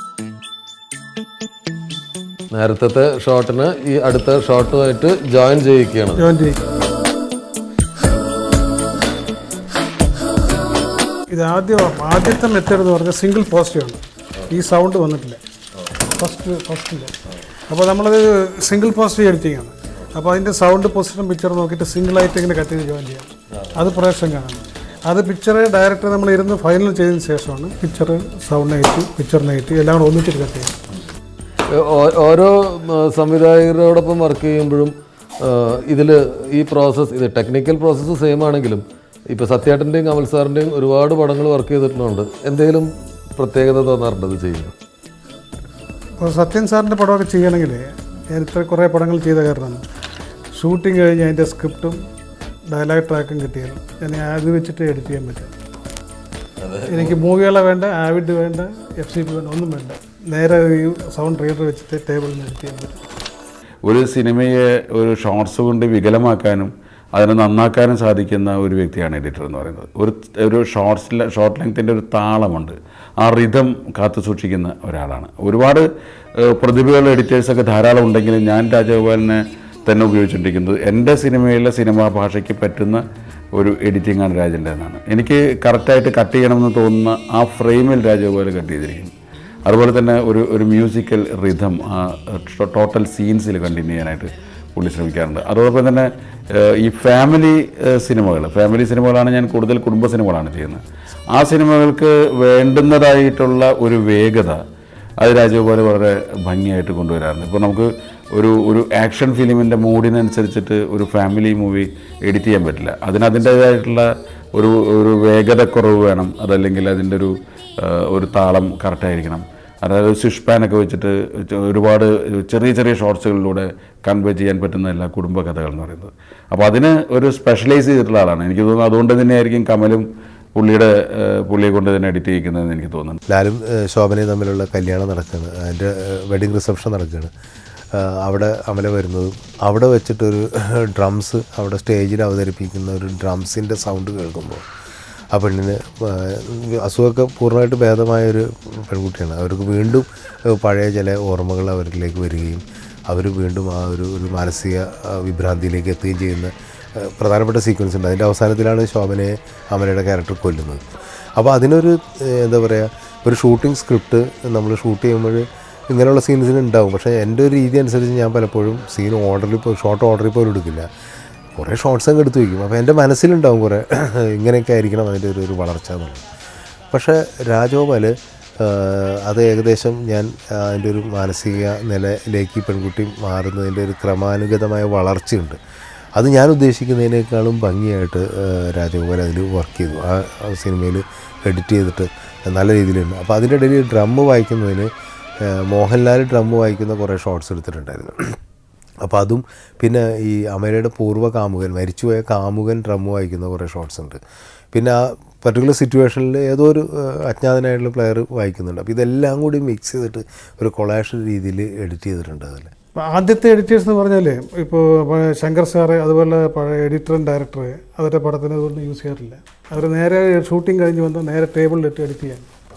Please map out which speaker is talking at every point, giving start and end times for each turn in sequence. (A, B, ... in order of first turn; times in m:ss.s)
0:02.5-0:06.3 A
0:06.2-0:06.6 B
0:11.3-0:15.4 B
0:16.2-0:17.1 B
0:17.7-0:30.7 B
0:23.5-0:23.8 A
0:31.7-0:44.7 A
0:46.2-0:49.8 B
0:50.6-0:52.0 B
0:52.7-0:55.6 B
0:56.6-0:57.2 A
0:56.9-1:03.0 B
1:03.8-1:15.8 C
1:16.4-1:29.1 C
1:29.6-1:44.6 C
1:45.2-2:13.2 C
2:13.3-2:17.3 D
2:17.9-2:24.6 D
2:25.3-2:40.8 D
2:41.4-2:50.9 D
2:51.6-2:56.2 D
2:56.9-3:05.6 D
3:06.2-3:14.9 D
3:15.4-3:18.4 D
3:19.0-3:24.2 D
3:24.7-3:32.7 D
3:33.0-3:42.5 B